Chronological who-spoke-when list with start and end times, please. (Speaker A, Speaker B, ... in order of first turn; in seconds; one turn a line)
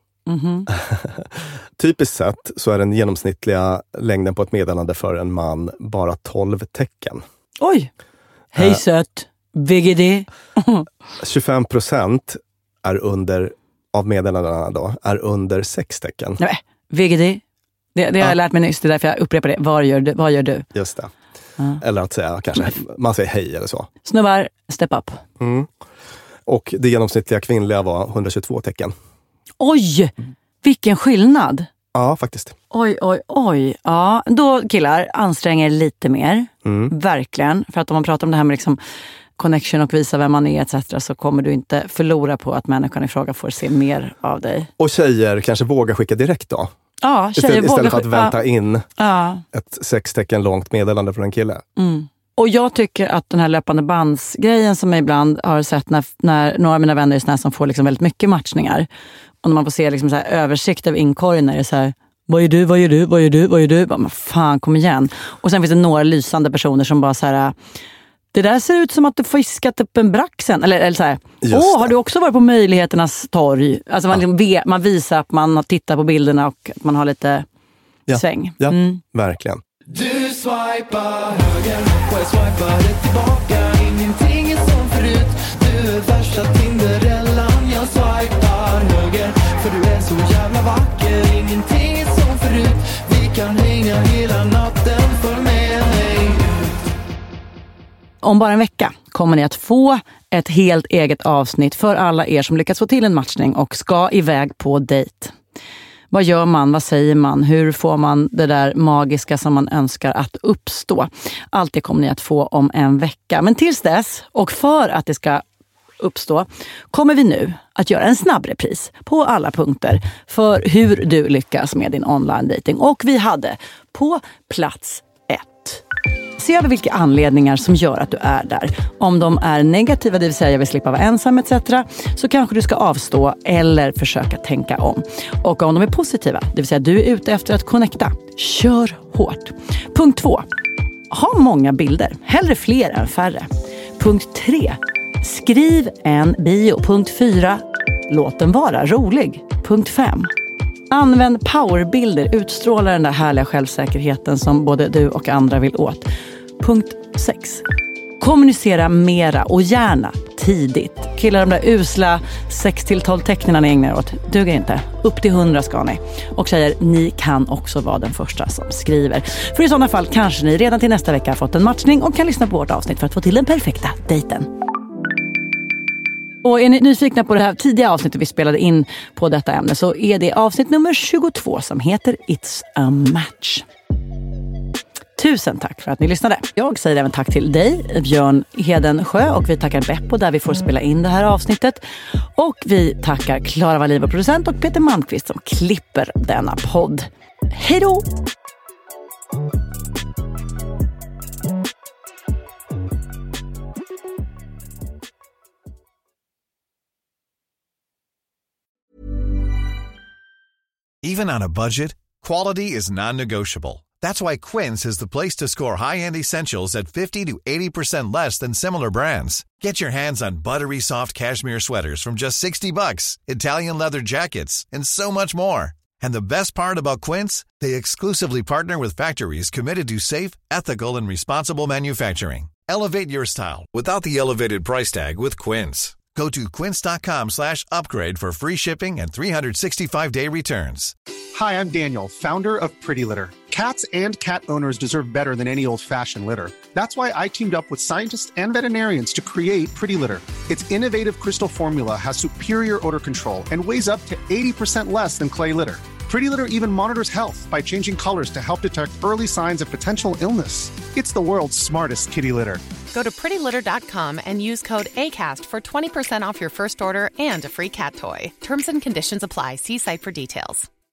Speaker A: 0.3-0.7
Speaker B: 0.7-7.2
Speaker A: 7.6-7.9
Speaker A: 8.5-10.9
Speaker B: 11.2-16.4
Speaker A: 16.4-17.4
Speaker A: 17.9-20.7
Speaker B: 20.7-21.1
Speaker B: 21.8-23.9
Speaker A: 24.0-25.2
Speaker B: 25.4-25.7
Speaker B: 26.5-28.9
Speaker A: 29.6-31.7
Speaker B: 31.9-32.5
Speaker A: 32.7-38.8
Speaker B: 36.6-36.9
Speaker A: 39.4-44.7
Speaker B: 44.8-46.7
Speaker A: 47.0-48.4
Speaker B: 47.3-48.9
Speaker A: 49.0-49.4
Speaker B: 49.5-51.6
Speaker A: 51.8-58.9
Speaker A: 59.4-67.5
Speaker A: 68.3-77.5
Speaker B: 71.4-71.9
Speaker B: 78.1-79.6
Speaker A: 78.1-79.0
Speaker C: 79.9-96.7
Speaker A: 98.2-105.3
Speaker A: 106.1-115.4
Speaker A: 116.0-125.8
Speaker A: 126.4-140.5
Speaker A: 141.1-150.3
Speaker A: 150.9-157.6
Speaker A: 158.2-174.5
Speaker A: 176.4-183.7
Speaker A: 185.2-198.1
Speaker D: 211.0-240.9
Speaker E: 241.3-262.6
Speaker F: 262.9-270.7